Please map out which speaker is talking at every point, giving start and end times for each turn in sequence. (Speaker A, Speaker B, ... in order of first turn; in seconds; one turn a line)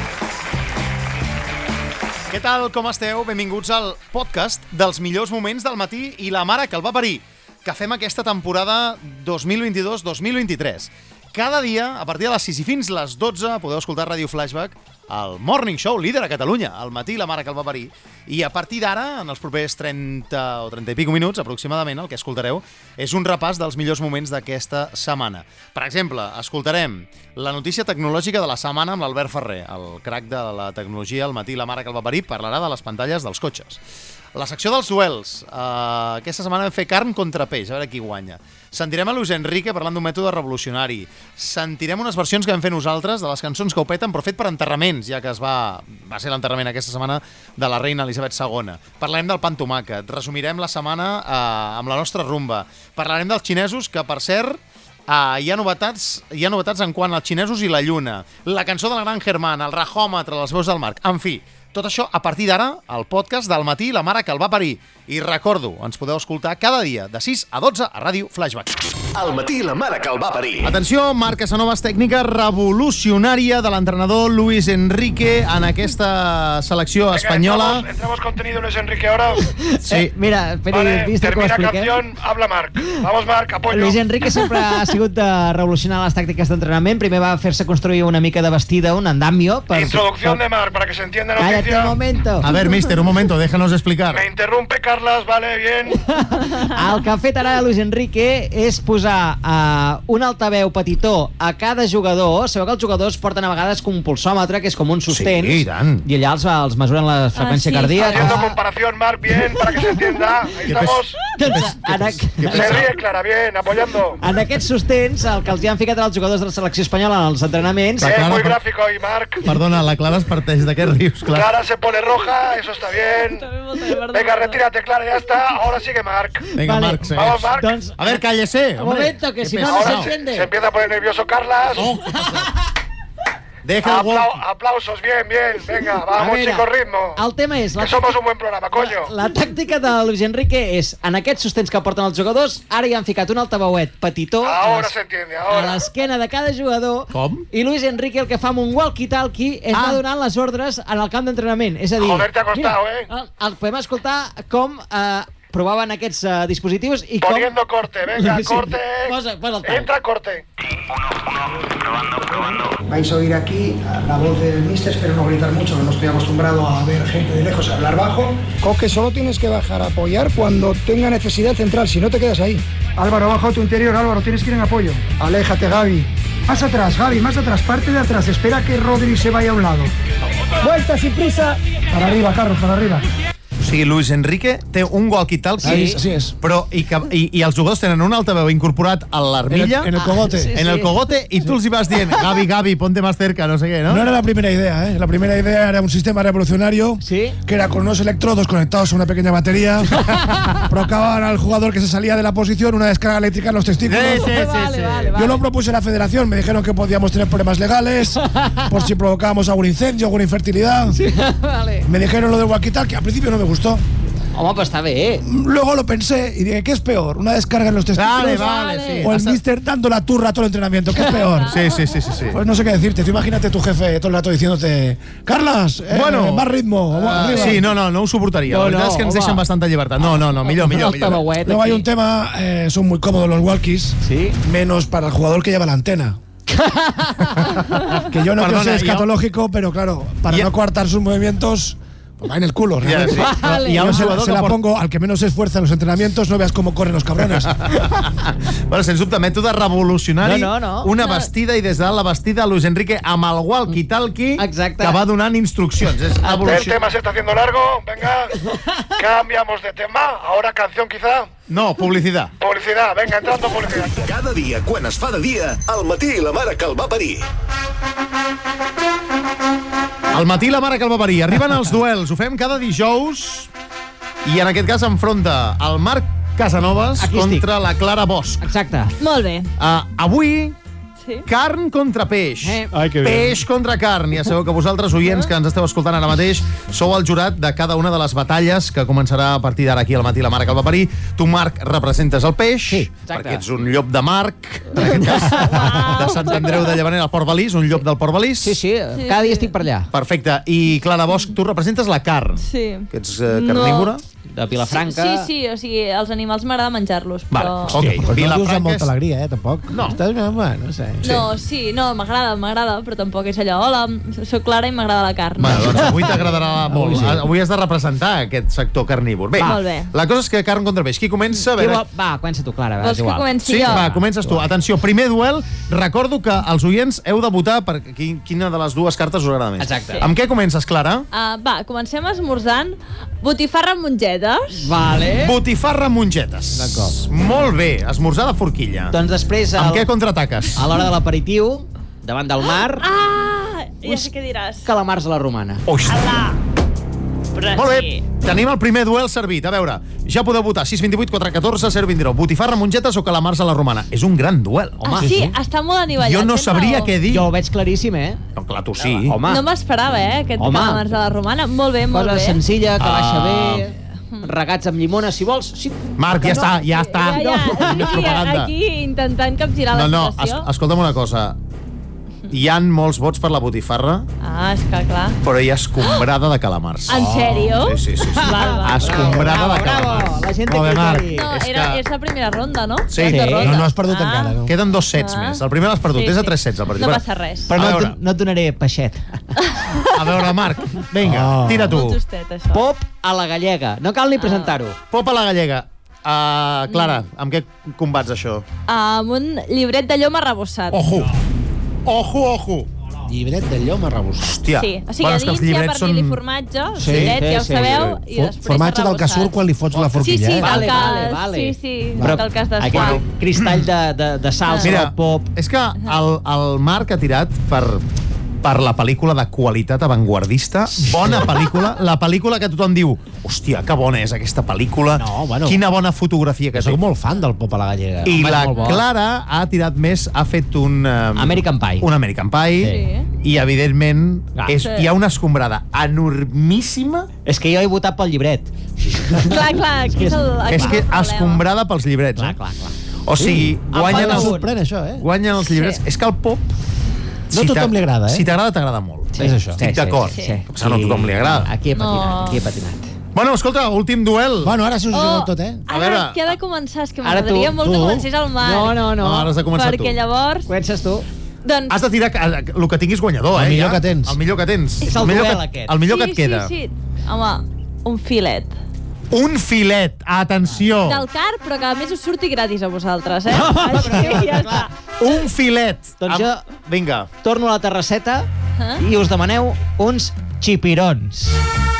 Speaker A: 2.3-33.8
Speaker A: 34.3-68.8
Speaker B: 69.1-70.7
Speaker A: 70.6-77.8
Speaker C: 77.1-79.4
Speaker D: 79.7-82.0
Speaker C: 80.7-84.0
Speaker D: 83.7-90.4
Speaker C: 89.7-92.0
Speaker D: 91.4-92.5
Speaker A: 92.4-94.2
Speaker C: 94.1-96.0
Speaker D: 96.2-108.5
Speaker A: 105.1-106.0
Speaker E: 107.3-108.4
Speaker C: 108.0-111.2
Speaker A: 110.6-113.0
Speaker D: 111.4-112.8
Speaker C: 112.5-114.2
Speaker D: 114.2-118.2
Speaker A: 118.0-118.6
Speaker C: 118.0-119.4
Speaker A: 119.4-121.5
Speaker C: 121.3-123.4
Speaker E: 123.3-124.6
Speaker C: 124.1-126.5
Speaker A: 126.6-130.1
Speaker D: 126.6-128.2
Speaker C: 127.1-127.7
Speaker D: 128.8-130.5
Speaker C: 129.6-131.9
Speaker A: 131.7-132.5
Speaker A: 133.6-134.4
Speaker C: 133.8-137.2
Speaker D: 136.2-138.0
Speaker C: 137.8-139.1
Speaker D: 138.7-144.9
Speaker C: 144.4-145.8
Speaker D: 145.5-157.5
Speaker A: 147.1-147.4
Speaker A: 149.7-150.0
Speaker C: 152.0-153.1
Speaker C: 157.2-160.4
Speaker D: 158.2-159.9
Speaker F: 162.9-179.9
Speaker F: 180.6-183.1
Speaker A: 183.6-189.9
Speaker D: 185.6-186.0
Speaker G: 185.6-186.2
Speaker H: 185.9-186.3
Speaker H: 189.5-190.5
Speaker G: 189.5-190.5
Speaker D: 190.0-190.9
Speaker A: 190.5-194.1
Speaker H: 193.9-200.0
Speaker D: 197.0-197.3
Speaker H: 200.7-204.3
Speaker A: 203.8-205.3
Speaker D: 204.0-205.4
Speaker H: 205.2-210.9
Speaker D: 210.9-211.9
Speaker H: 211.9-213.8
Speaker D: 214.3-215.2
Speaker H: 215.3-218.3
Speaker G: 215.5-218.3
Speaker A: 217.9-219.4
Speaker E: 218.3-219.1
Speaker H: 219.0-221.5
Speaker G: 219.1-219.6
Speaker E: 221.0-222.2
Speaker A: 221.5-222.4
Speaker H: 222.3-227.5
Speaker A: 225.9-231.2
Speaker G: 225.9-226.3
Speaker G: 227.2-227.5
Speaker D: 227.3-227.6
Speaker D: 228.5-229.4
Speaker D: 230.4-231.9
Speaker H: 231.4-236.2
Speaker D: 234.0-234.4
Speaker D: 236.7-237.5
Speaker H: 238.1-247.6
Speaker A: 238.3-239.1
Speaker A: 242.8-244.6
Speaker D: 243.1-244.1
Speaker A: 247.3-256.9
Speaker D: 250.2-250.9
Speaker E: 251.0-251.3
Speaker D: 254.4-255.0
Speaker C: 256.4-258.3
Speaker C: 259.0-261.3
Speaker A: 261.5-262.3
Speaker C: 262.4-264.1
Speaker B: 264.0-267.2
Speaker A: 270.1-273.5
Speaker A: 274.2-278.4
Speaker D: 277.0-277.4
Speaker D: 278.4-278.9
Speaker E: 279.0-279.5
Speaker A: 279.6-280.5
Speaker A: 281.3-298.6
Speaker D: 282.4-282.7
Speaker H: 282.7-283.4
Speaker D: 292.7-293.4
Speaker D: 294.8-295.8
Speaker E: 294.9-296.7
Speaker D: 298.4-299.9
Speaker E: 299.0-299.6
Speaker A: 299.9-304.0
Speaker E: 302.4-303.9
Speaker D: 304.3-305.3
Speaker E: 304.6-307.8
Speaker A: 307.3-308.9
Speaker G: 307.7-311.2
Speaker A: 309.7-310.0
Speaker E: 311.0-316.3
Speaker A: 315.4-321.8
Speaker D: 316.7-317.1
Speaker G: 316.8-317.2
Speaker E: 319.4-319.9
Speaker D: 321.6-324.4
Speaker E: 322.8-323.9
Speaker A: 323.4-331.1
Speaker D: 329.6-330.0
Speaker E: 331.1-334.6
Speaker D: 334.5-335.3
Speaker A: 335.2-338.9
Speaker G: 336.6-336.9
Speaker D: 338.9-339.9
Speaker A: 339.6-340.6
Speaker D: 340.5-342.8
Speaker E: 342.8-344.6
Speaker D: 344.6-345.6
Speaker A: 345.7-345.9
Speaker E: 345.9-346.4
Speaker E: 347.3-348.0
Speaker A: 347.5-354.9
Speaker E: 354.8-356.9
Speaker D: 354.8-355.2
Speaker A: 355.9-357.3
Speaker D: 357.1-358.2
Speaker A: 358.4-359.2
Speaker D: 359.0-359.4
Speaker E: 359.2-362.4
Speaker D: 360.4-360.8
Speaker D: 361.9-368.1
Speaker A: 362.8-363.7
Speaker A: 366.0-368.5
Speaker E: 366.7-370.5
Speaker A: 369.7-371.4
Speaker A: 372.3-374.1
Speaker E: 374.2-375.2
Speaker A: 375.2-381.8
Speaker E: 375.8-376.1
Speaker E: 376.9-379.4
Speaker D: 378.2-381.3
Speaker E: 381.1-384.4
Speaker A: 382.9-383.5
Speaker D: 383.0-383.6
Speaker G: 383.4-384.5
Speaker A: 384.4-387.0
Speaker E: 384.9-385.4
Speaker E: 385.9-387.5
Speaker D: 387.5-389.2
Speaker A: 387.5-388.0
Speaker A: 389.9-392.0
Speaker G: 391.0-391.7
Speaker E: 391.6-392.7
Speaker D: 392.5-394.8
Speaker E: 394.2-394.6
Speaker A: 394.9-398.4
Speaker E: 396.7-397.0
Speaker E: 398.7-400.9
Speaker A: 400.7-401.1
Speaker A: 401.9-402.7
Speaker G: 403.1-404.4
Speaker A: 404.2-406.2
Speaker E: 404.5-409.5
Speaker D: 406.8-407.9
Speaker G: 406.8-407.1
Speaker G: 408.1-410.6
Speaker E: 410.0-413.0
Speaker D: 410.4-415.3
Speaker A: 412.7-413.6
Speaker E: 414.4-414.8
Speaker A: 414.6-417.8
Speaker A: 418.4-426.8
Speaker G: 425.0-425.6
Speaker G: 426.5-428.3
Speaker A: 428.0-437.1
Speaker D: 428.1-428.8
Speaker E: 428.5-428.8
Speaker D: 431.1-431.9
Speaker E: 432.6-433.1
Speaker E: 434.6-434.9
Speaker D: 437.2-439.4
Speaker E: 439.3-441.4
Speaker D: 439.9-440.8
Speaker A: 440.5-442.4
Speaker D: 442.1-442.7
Speaker A: 443.1-444.4
Speaker G: 443.2-445.1
Speaker D: 443.7-444.5
Speaker A: 445.0-446.5
Speaker E: 445.4-445.8
Speaker G: 447.3-448.3
Speaker A: 447.3-451.5
Speaker D: 449.1-452.9
Speaker E: 450.1-450.4
Speaker E: 451.7-452.4
Speaker A: 453.1-454.5
Speaker G: 454.4-455.6
Speaker E: 454.9-458.8
Speaker A: 455.7-456.4
Speaker D: 457.0-459.3
Speaker A: 459.0-460.0
Speaker E: 459.5-460.4
Speaker D: 460.5-461.1
Speaker E: 461.4-461.8
Speaker A: 461.7-466.5
Speaker G: 463.3-464.2
Speaker D: 464.8-465.7
Speaker E: 465.8-468.5
Speaker A: 469.1-471.0
Speaker E: 470.8-474.7
Speaker D: 473.3-474.7
Speaker A: 475.0-477.1
Speaker D: 476.0-476.4
Speaker D: 477.2-478.3
Speaker D: 478.8-481.4